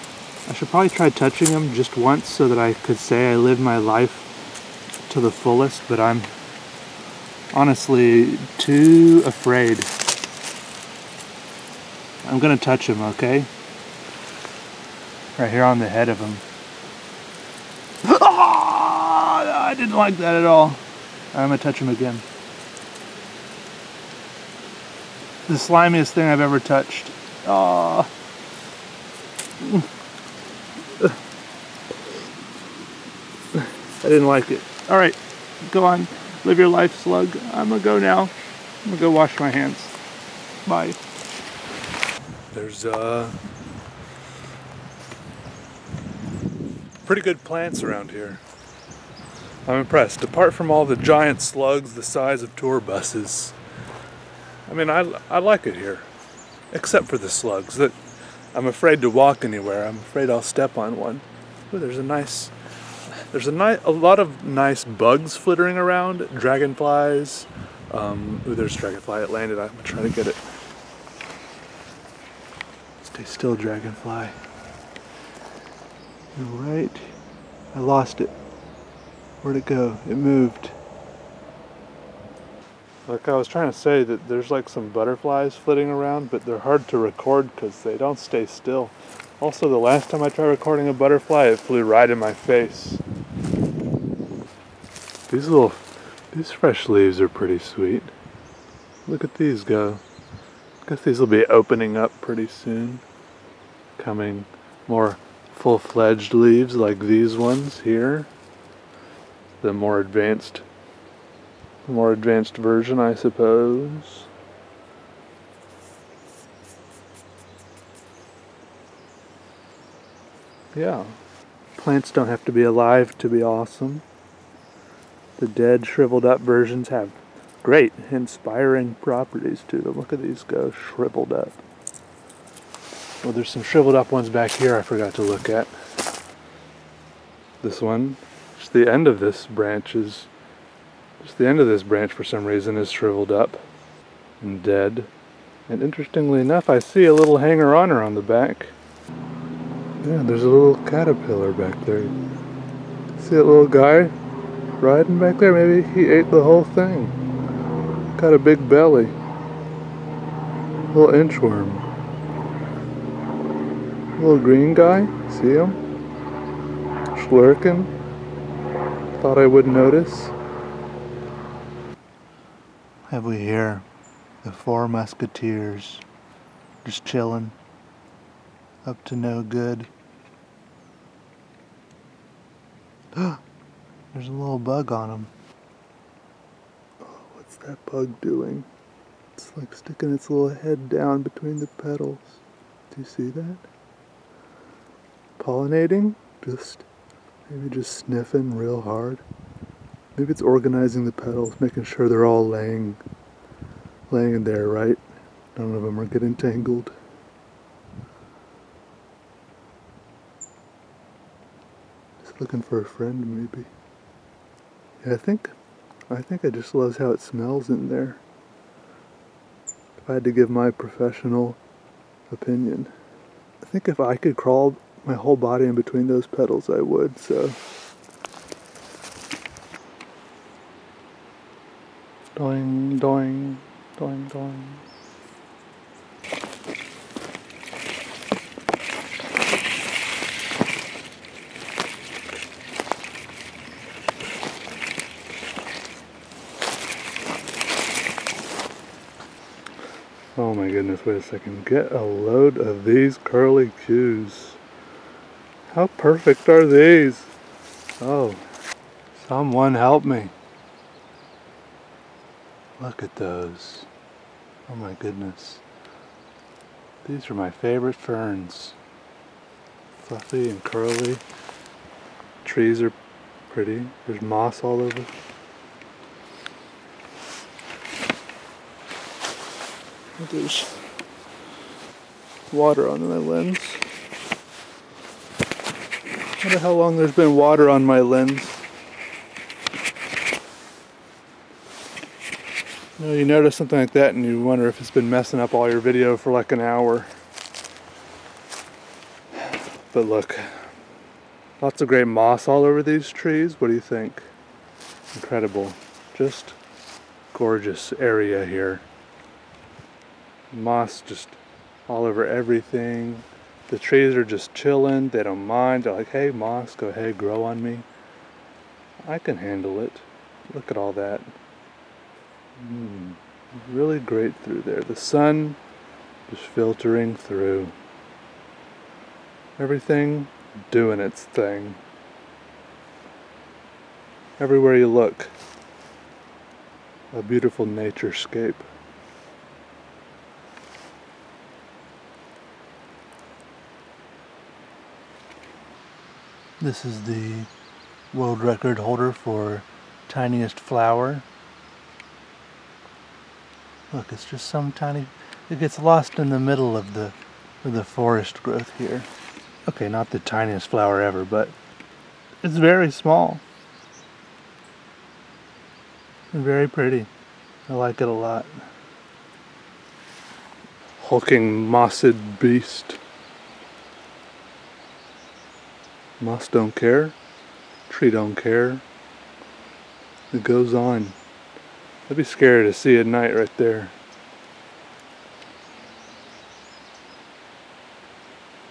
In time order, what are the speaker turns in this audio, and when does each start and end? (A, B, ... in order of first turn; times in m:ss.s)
0:00.5-0:04.3 A
0:05.1-0:06.3 A
0:07.5-0:09.9 A
0:12.2-0:13.5 A
0:15.4-0:16.4 A
0:18.0-0:20.8 A
0:21.3-0:22.2 A
0:25.5-0:28.1 A
0:29.6-0:29.9 A
0:33.5-0:38.3 A
0:38.8-0:40.0 A
0:40.6-0:41.0 A
0:42.5-0:43.4 A
0:47.0-0:48.4 A
0:49.6-0:53.6 A
0:54.7-0:56.1 A
0:56.7-0:57.9 A
0:58.5-1:02.5 A
1:03.3-1:10.4 A
1:13.1-1:14.4 A
1:16.3-1:17.1 A
1:17.7-1:18.3 A
1:19.4-1:20.7 A
1:23.1-1:33.0 A
1:35.3-1:38.1 A
1:39.0-1:40.0 A
1:40.8-1:43.0 A
1:44.0-1:48.3 A
1:49.6-1:50.6 A
1:51.8-1:54.3 A
2:00.7-2:01.2 A
2:01.8-2:04.0 A
2:05.4-2:11.6 A
2:13.2-2:15.7 A
2:17.6-2:20.3 A
2:21.2-2:23.6 A
2:24.4-2:25.1 A
2:25.7-2:28.7 A
2:30.0-2:32.2 A
2:33.1-2:34.1 A
2:34.8-2:37.2 A
2:38.1-2:39.1 A
2:40.9-2:41.9 A
2:44.2-2:45.8 A
2:47.1-2:47.9 A
2:49.1-2:50.3 A
2:53.1-2:53.8 A
2:54.4-2:56.0 A
2:56.8-2:57.6 A
2:58.8-2:59.9 A
3:03.1-3:03.4 A
3:04.1-3:05.3 A
3:07.0-3:08.7 A
3:09.3-3:13.6 A
3:15.4-3:16.9 A
3:17.5-3:19.2 A
3:20.1-3:23.0 A
3:24.1-3:25.0 A
3:25.5-3:26.9 A
3:32.2-3:33.7 A
3:35.0-3:35.5 A
3:36.1-3:38.2 A
3:40.0-3:41.6 A
3:42.3-3:42.9 A
3:43.6-3:47.6 A
3:52.4-3:54.8 A
4:10.3-4:14.6 A
4:15.7-4:17.3 A
4:18.0-4:18.4 A
4:19.1-4:20.3 A
4:22.8-4:23.9 A
4:24.7-4:25.6 A
4:27.0-4:28.8 A
4:30.0-4:31.2 A
4:32.4-4:32.9 A
4:33.5-4:35.1 A
4:40.2-4:40.8 A
4:42.5-4:43.8 A
4:46.4-4:48.6 A
4:53.0-4:57.1 A
4:59.9-5:00.7 A
5:01.6-5:04.3 A
5:05.1-5:06.6 A
5:07.3-5:08.8 A
5:10.5-5:17.8 A
5:19.0-5:21.3 A
5:22.6-5:25.6 A
5:26.3-5:27.7 A
5:29.6-5:31.8 A
5:34.4-5:35.3 A
5:37.1-5:38.7 A
5:46.6-5:47.5 A
5:48.1-5:51.2 A
5:53.9-5:59.1 A
5:59.7-6:01.5 A
6:02.4-6:03.4 A
6:06.3-6:07.1 A
6:07.7-6:08.6 A
6:11.0-6:13.0 A
6:16.2-6:17.2 A
6:17.9-6:18.8 A
6:20.3-6:21.2 A
6:22.1-6:23.9 A